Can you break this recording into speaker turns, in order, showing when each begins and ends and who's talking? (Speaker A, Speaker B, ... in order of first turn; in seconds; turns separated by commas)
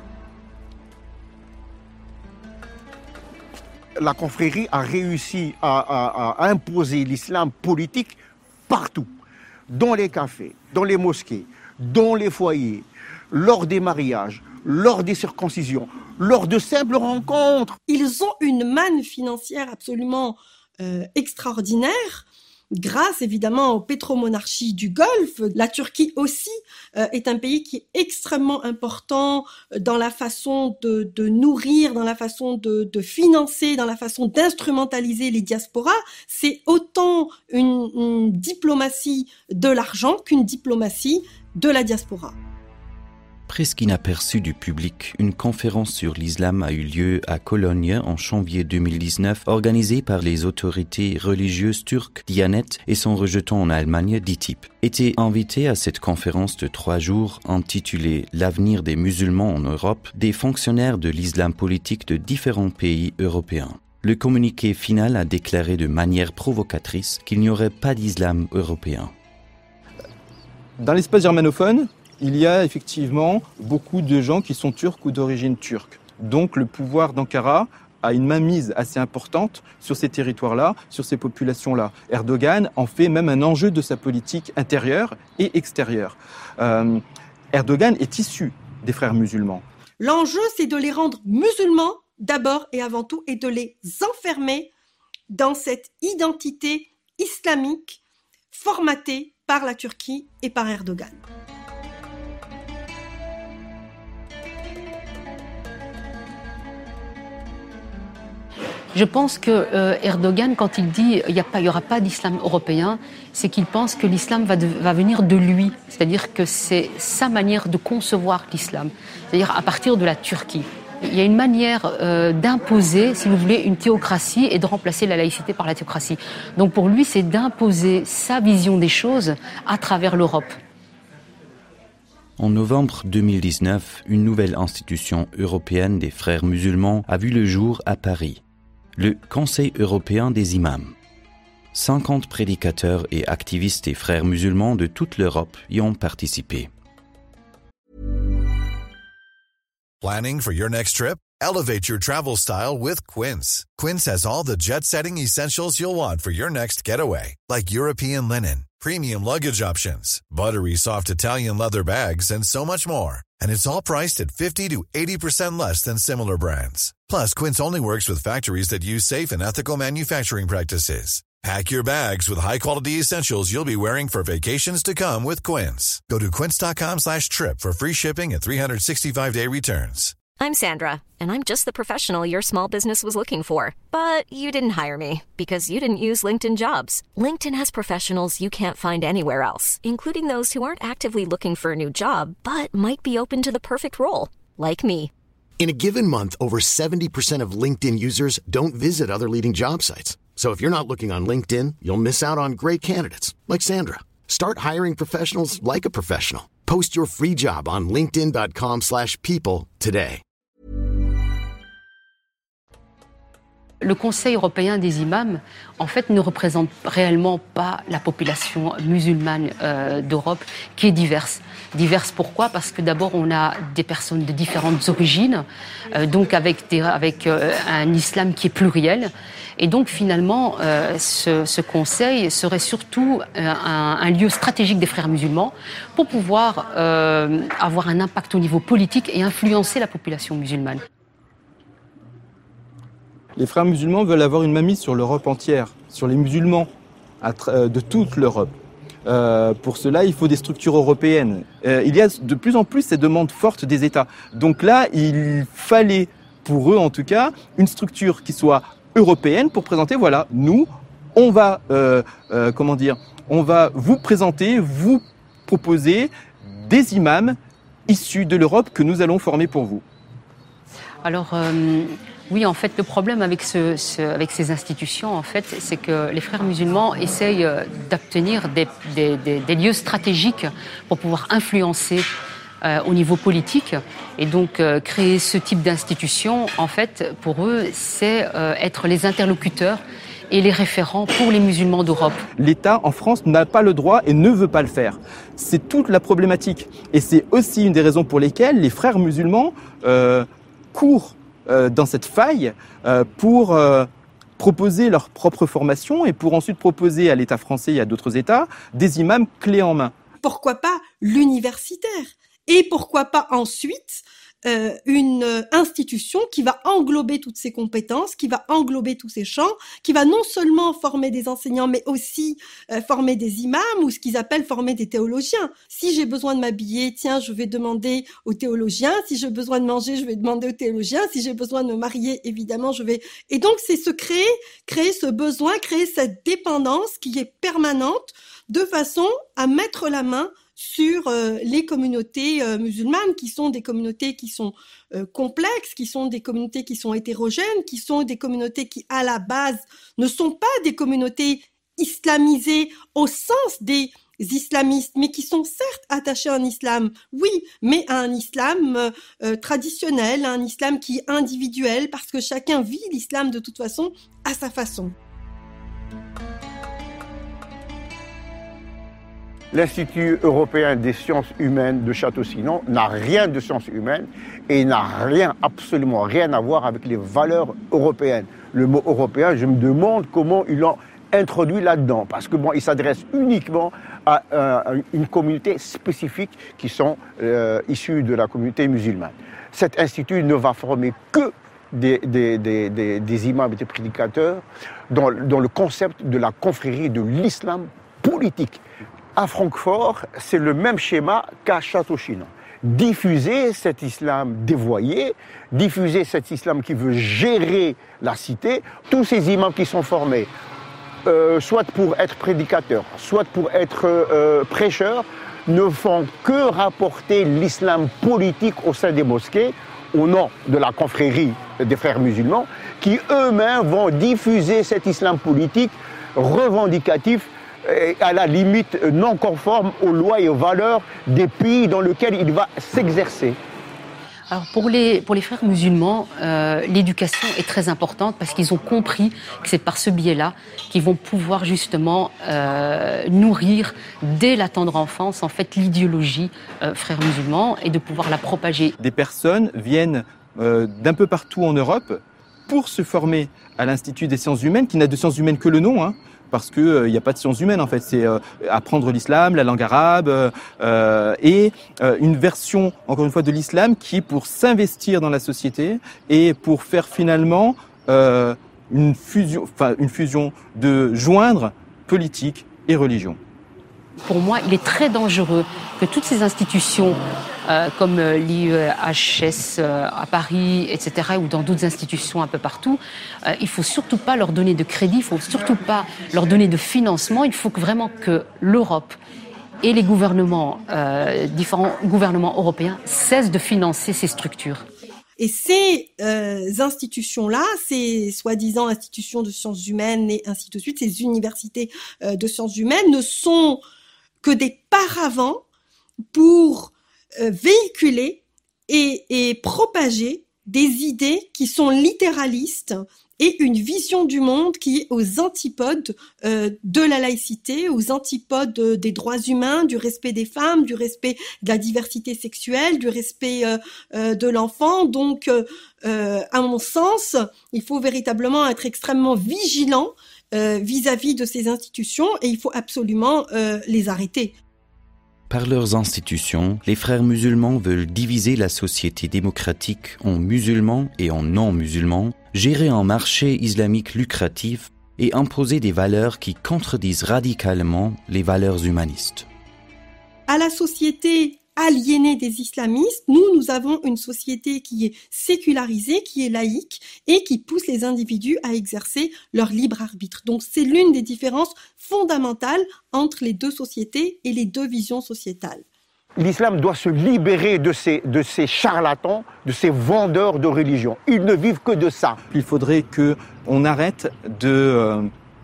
Speaker A: 4.0-9.1, Speaker A: 9.7-17.8, Speaker B: 17.9-42.4, Speaker C: 43.5-69.1, Speaker D: 70.8-89.7, Speaker B: 90.0-94.7, Speaker B: 95.3-98.0, Speaker B: 98.5-101.2, Speaker E: 108.9-130.6, Speaker C: 132.4-138.4, Speaker C: 139.0-140.9, Speaker C: 141.7-146.7, Speaker F: 150.0-180.1, Speaker G: 180.4-195.1, Speaker H: 195.6-210.2, Speaker E: 213.8-240.8, Speaker D: 243.4-246.7, Speaker D: 247.2-248.5, Speaker D: 249.1-266.1, Speaker D: 266.6-269.8, Speaker E: 271.0-282.1, Speaker E: 282.6-292.2, Speaker D: 292.4-309.9, Speaker B: 310.2-364.9, Speaker A: 369.5-398.6, Speaker A: 399.2-410.3, Speaker A: 411.1-433.4, Speaker E: 434.3-448.7, Speaker D: 448.8-473.2, Speaker E: 474.1-489.0, Speaker E: 489.6-494.6, Speaker B: 495.2-503.6, Speaker B: 504.2-505.4, Speaker B: 506.1-534.4, Speaker C: 535.3-549.3, Speaker B: 550.3-565.6, Speaker A: 566.2-572.2, Speaker D: 572.3-575.1